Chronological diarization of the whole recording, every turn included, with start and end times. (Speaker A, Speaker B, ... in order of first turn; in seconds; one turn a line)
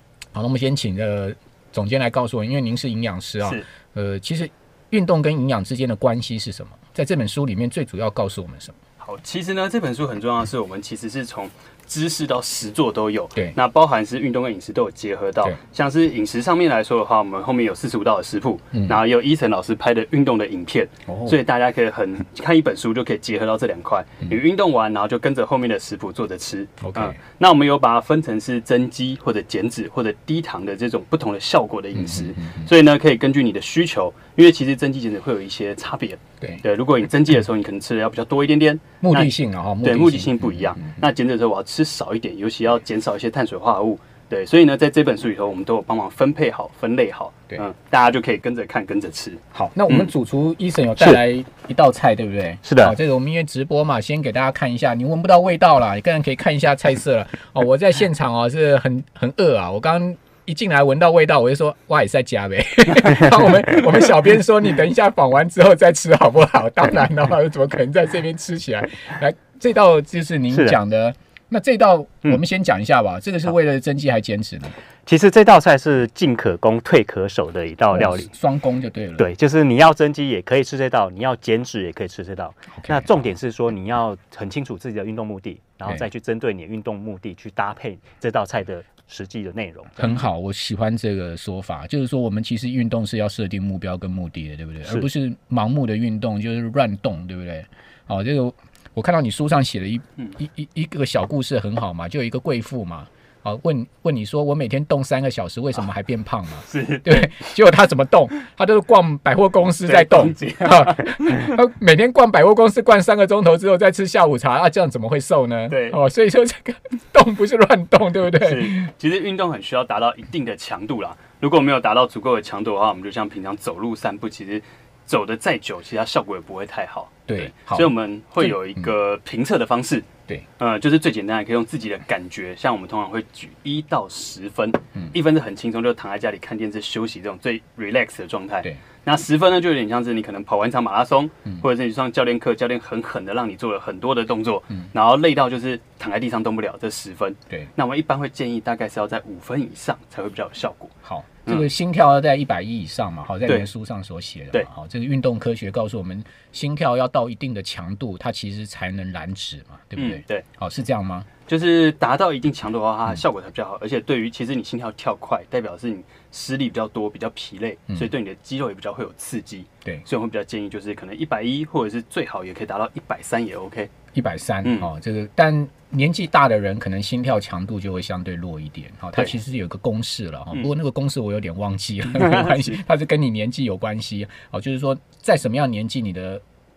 Speaker A: 0.3-8.8
Speaker B: 9.0-50.0
Speaker A: 18.7-19.0
Speaker A: 21.1-21.4
Speaker A: 26.8-27.2
Speaker A: 31.9-32.7
Speaker A: 39.0-41.0
Speaker A: 49.5-74.8
Speaker C: 52.6-53.0
Speaker C: 70.5-70.8
Speaker C: 75.1-78.3
Speaker A: 77.9-79.3
Speaker C: 79.2-90.2
Speaker A: 82.7-83.3
Speaker A: 90.0-118.9
Speaker B: 106.7-107.3
Speaker B: 109.9-110.9
Speaker B: 115.7-116.0
Speaker B: 118.4-130.1
Speaker A: 127.3-128.9
Speaker B: 130.6-150.9
Speaker A: 151.0-161.3
Speaker B: 160.0-160.4
Speaker B: 161.5-173.9
Speaker A: 174.1-186.4
Speaker B: 174.6-174.9
Speaker B: 182.1-182.8